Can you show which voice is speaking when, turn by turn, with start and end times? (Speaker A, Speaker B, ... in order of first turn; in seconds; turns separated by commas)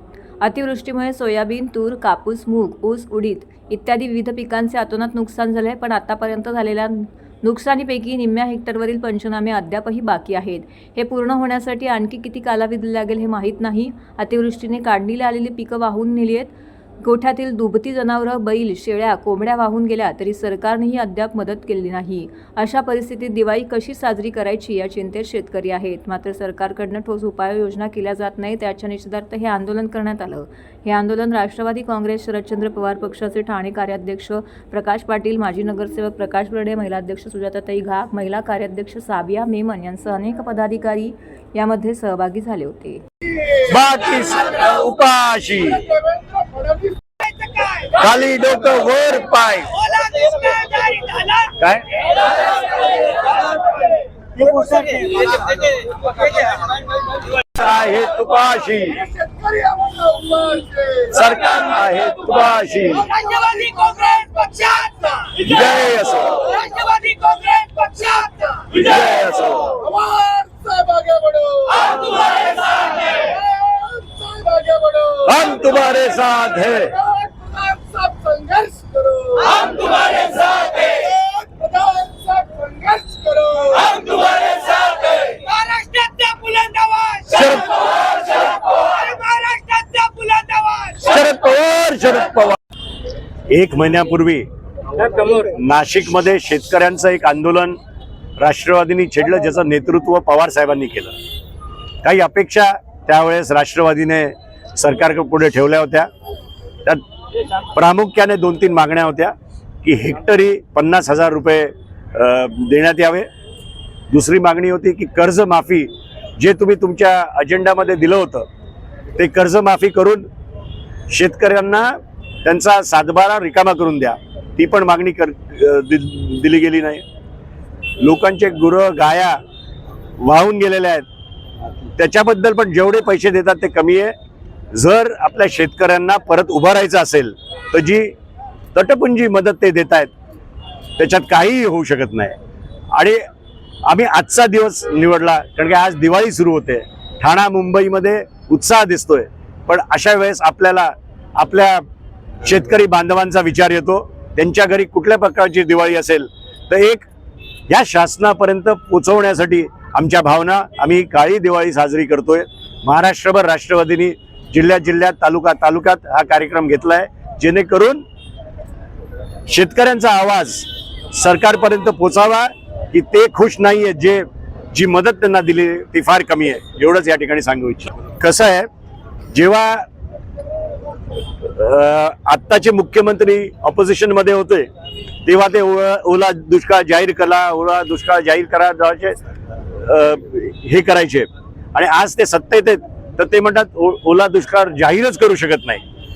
Speaker A: 0.4-43.0, Speaker B: 43.5-46.0, Speaker B: 47.7-50.0, Speaker C: 50.0-51.4, Speaker B: 51.5-52.1, Speaker B: 54.4-55.2, Speaker C: 54.7-55.5, Speaker B: 57.4-59.1, Speaker C: 59.4-60.5, Speaker B: 60.9-63.2, Speaker C: 63.2-65.3, Speaker B: 65.3-66.6, Speaker C: 66.6-68.6, Speaker B: 68.6-69.9, Speaker C: 70.1-72.5, Speaker C: 74.3-75.1, Speaker B: 75.1-77.1, Speaker C: 77.5-87.3, Speaker B: 87.2-88.0, Speaker C: 88.1-90.9, Speaker B: 90.9-92.6, Speaker B: 93.5-94.4, Speaker B: 95.0-97.8, Speaker B: 98.4-101.1, Speaker B: 102.0-106.1, Speaker B: 107.7-113.3, Speaker B: 114.1-118.4, Speaker B: 119.2-120.2, Speaker B: 121.1-127.0, Speaker B: 128.0-129.4, Speaker B: 130.2-131.0, Speaker B: 132.0-134.1, Speaker B: 134.7-138.1, Speaker B: 138.7-140.1, Speaker B: 141.0-142.3, Speaker B: 142.9-143.2, Speaker B: 143.8-151.8, Speaker B: 152.4-157.1, Speaker B: 157.7-168.0, Speaker B: 169.5-178.7, Speaker B: 179.3-179.8, Speaker B: 181.4-184.7, Speaker B: 185.2-189.1, Speaker B: 189.7-195.8